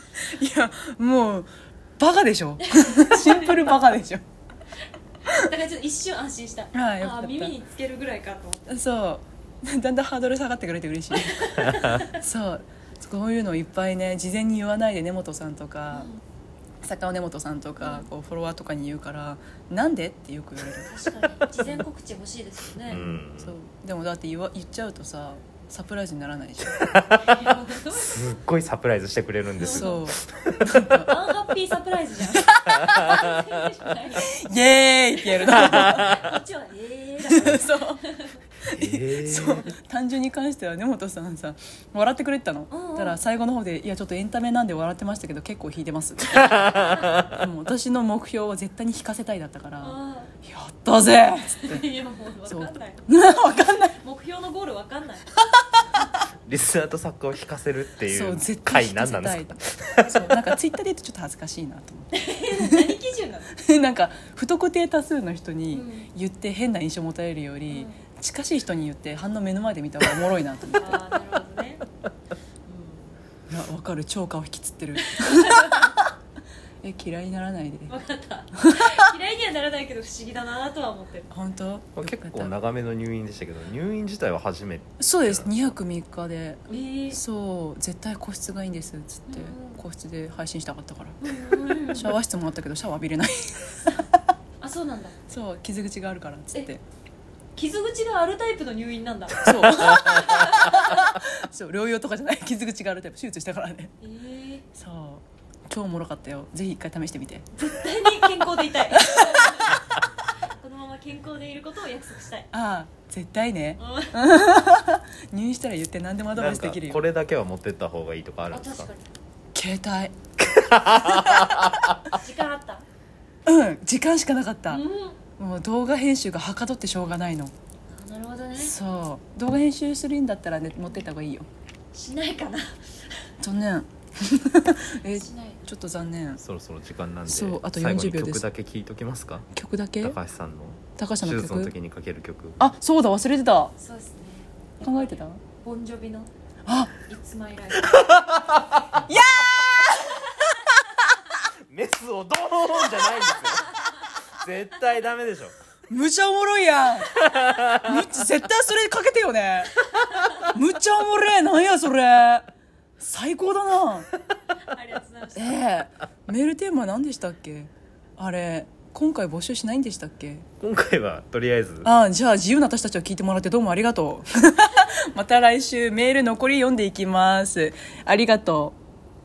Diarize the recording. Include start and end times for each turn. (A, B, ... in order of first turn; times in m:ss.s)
0:00.2-0:04.2 A
0:02.7-0:03.8 B
0:05.2-0:08.7 B
0:06.7-0:07.6 A
0:08.7-0:16.1 A
0:11.1-0:12.2 B
0:15.9-0:16.2 B
0:16.8-0:20.9 A
0:17.8-0:18.1 B
0:20.8-0:23.0 B
0:21.6-0:21.8 A
0:22.9-0:23.5 C
0:22.9-0:26.9 A
0:26.8-0:27.5 C
0:27.2-0:28.3 B
0:28.1-0:30.6 C
0:29.6-0:30.0 B
0:29.6-0:31.1 A
0:30.9-0:34.3 B
0:32.5-0:33.1 A
0:34.1-0:36.2 A
0:35.2-0:38.4 B
0:37.2-0:38.0 A
0:38.6-0:51.9 A
0:38.8-0:39.7 C
0:42.7-0:43.2 B
0:46.8-0:47.2 B
0:49.8-0:50.3 B
0:51.5-0:53.2 B
0:52.5-0:54.0 A
0:53.8-0:55.3 B
0:56.5-1:00.3 C
0:58.1-1:02.9 A
1:02.1-1:03.5 B
1:03.6-1:11.0 A
1:05.7-1:06.1 B
1:07.7-1:08.0 B
1:10.7-1:11.8 B
1:12.7-1:13.2 B
1:13.5-1:16.1 A
1:15.0-1:15.9 B
1:16.8-1:18.0 A
1:17.9-1:21.3 B
1:18.5-1:19.1 A
1:21.3-1:22.5 A
1:22.0-1:25.5 C
1:25.0-1:34.2 A
1:26.7-1:27.2 B
1:29.3-1:29.8 B
1:31.2-1:32.2 B
1:34.6-1:35.2 B
1:35.3-1:36.8 A
1:37.6-1:40.9 B
1:39.4-1:43.9 A
1:44.0-1:44.6 B
1:44.7-1:47.5 A
1:47.6-1:50.0 B
1:49.0-1:49.6 A
1:50.6-1:52.5 B
1:52.5-1:57.0 A
1:53.8-1:54.2 B
1:56.4-1:58.9 C
1:58.5-1:59.1 B
1:59.5-2:00.1 A
2:00.5-2:01.7 C
2:00.9-2:01.9 A
2:02.1-2:02.8 B
2:03.5-2:04.8 A
2:04.7-2:05.2 B
2:05.4-2:07.5 A
2:07.9-2:08.8 B
2:08.6-2:11.5 A
2:11.9-2:12.8 B
2:13.4-2:16.4 A
2:15.0-2:15.6 B
2:16.4-2:19.5 C
2:17.3-2:18.4 A
2:19.5-2:20.2 A
2:20.0-2:22.6 C
2:21.0-2:21.7 A
2:22.6-2:23.7 A
2:23.8-2:26.3 B
2:24.8-2:25.4 A
2:26.7-2:27.0 A
2:27.0-2:28.2 B
2:29.0-2:31.0 A
2:31.7-2:33.8 C
2:34.3-2:35.5 C
2:35.9-2:42.5 A
2:40.0-2:40.4 B
2:43.0-2:44.1 A
2:44.6-2:45.7 B
2:45.4-2:50.5 A
2:50.6-2:51.9 C
2:51.8-2:58.8 A